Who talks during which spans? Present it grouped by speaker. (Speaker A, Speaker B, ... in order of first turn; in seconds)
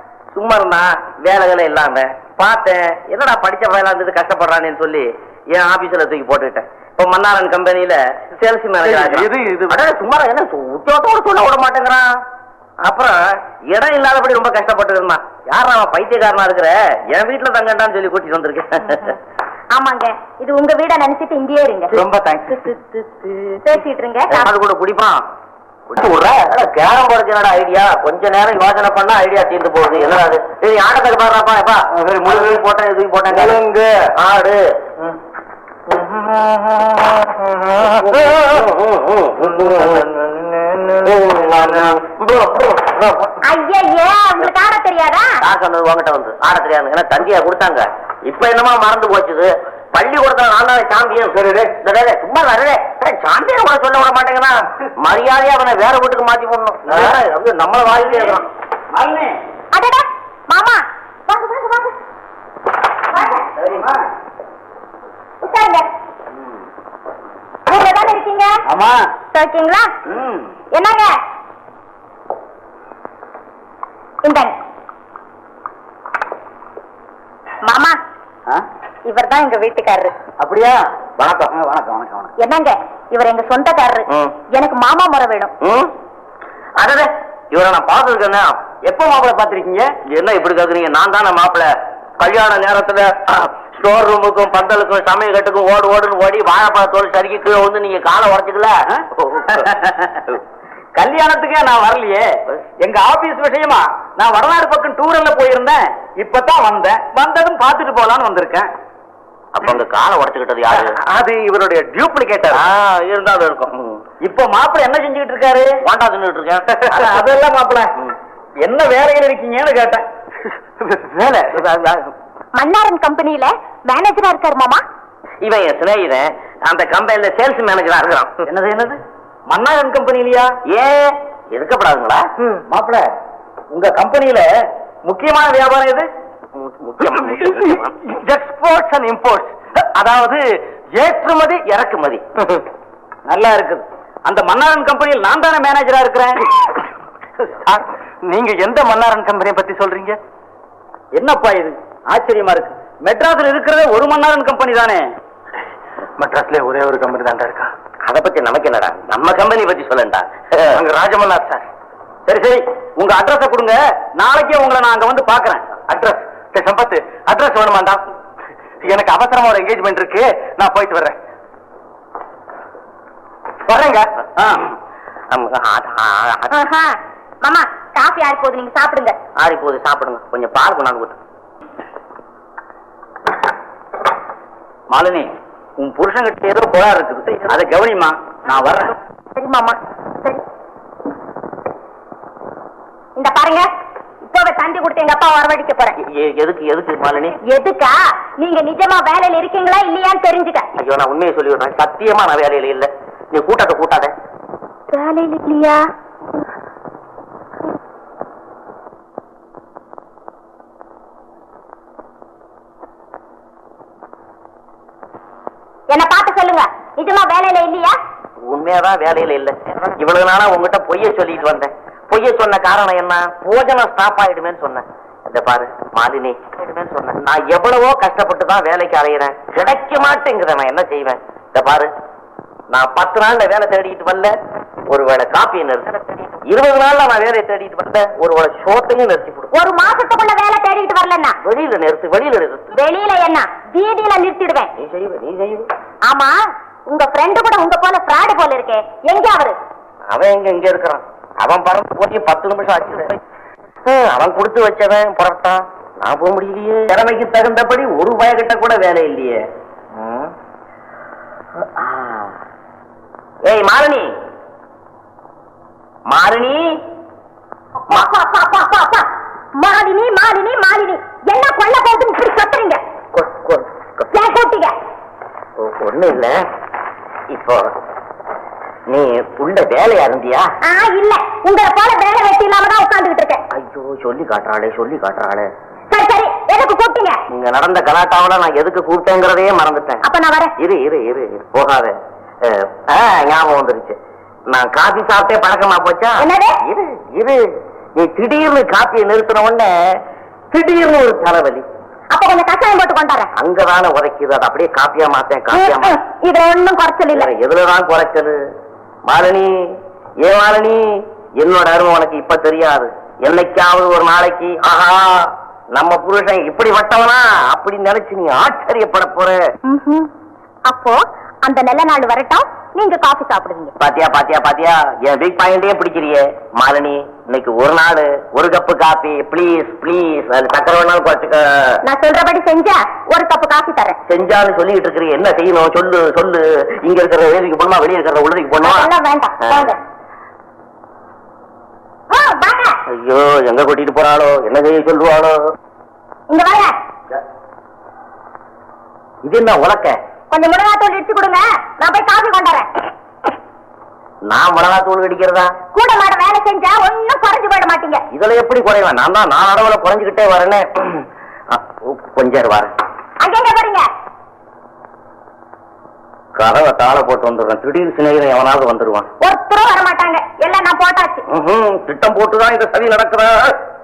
Speaker A: 0.3-12.1, 12.8-19.2, 24.3-25.2, 25.9-33.6, 34.1-34.8, 38.0-40.1, 41.0-43.3, 45.4-58.5, 70.1-70.4, 81.2-81.5, 84.1-84.3, 85.6-85.9, 86.8-88.7, 90.0-100.4, 109.5-111.0, 112.5-114.0, 115.8-117.2, 121.2-122.1, 125.4-128.4, 130.7-132.2, 136.5-137.9, 141.6-142.2, 158.0-160.8, 175.3-176.5, 179.4-181.2, 196.0-197.4, 200.8-204.1, 218.4-231.9, 232.7-234.4, 234.9-239.5, 241.4-242.7, 244.8-245.7, 250.1-253.2, 253.8-260.3, 261.6-262.4, 263.4-264.1, 266.1-266.8, 273.1-274.1, 275.6-276.4, 277.3-277.7, 278.9-280.5, 283.5-285.5, 287.3-290.0, 290.6-294.0, 294.5-300.0, 300.5-301.6, 303.3-305.9, 307.1-308.4, 309.1-319.4, 323.8-331.8, 334.1-338.9, 339.4-339.7, 342.9-345.4, 349.2-350.0, 354.3-355.5, 358.1-362.7, 366.4-369.1, 371.3-373.6
Speaker B: 8.8-9.7, 21.9-22.8, 32.0-32.4, 33.3-34.0, 35.9-37.8, 39.6-41.1, 111.1-112.6, 120.8-121.2, 137.2-140.4, 141.0-141.6, 147.7-150.2, 156.2-157.7, 160.7-161.6, 165.9-168.0, 168.8-171.2, 173.7-174.0
Speaker C: 19.7-21.9, 23.6-24.5, 43.4-45.4, 59.7-61.9, 63.1-63.5, 65.4-65.9, 67.7-68.6, 69.3-69.9, 70.7-71.1, 74.2-74.5, 77.6-78.0, 79.0-80.1, 82.4-85.5, 122.6-124.8, 176.5-179.2, 189.3-190.4, 193.2-193.7, 194.2-196.0, 197.4-200.7, 204.9-205.8, 215.9-217.9, 239.5-241.4, 242.7-244.7, 246.1-246.3, 246.9-249.6, 267.9-272.8, 274.1-274.7, 280.6-283.4, 285.9-287.2, 290.0-290.5, 296.2-296.6, 302.1-303.3, 305.5-307.3, 319.7-320.1, 320.7-323.7, 331.8-334.0, 338.6-339.8, 342.1-342.8, 346.3-346.7, 350.3-352.7, 355.7-358.0, 363.2-363.8, 369.2-371.2
Speaker D: 58.9-59.4, 63.6-64.0, 68.7-69.1, 80.4-80.9, 81.5-82.3, 88.8-89.9, 100.9-102.3, 102.8-108.7, 114.2-115.8, 116.8-117.9, 118.6-120.0, 128.4-130.5, 132.4-133.1, 133.7-134.4, 135.1-136.1, 143.3-146.4, 151.1-155.1, 162.3-165.8, 174.4-174.7, 184.9-188.9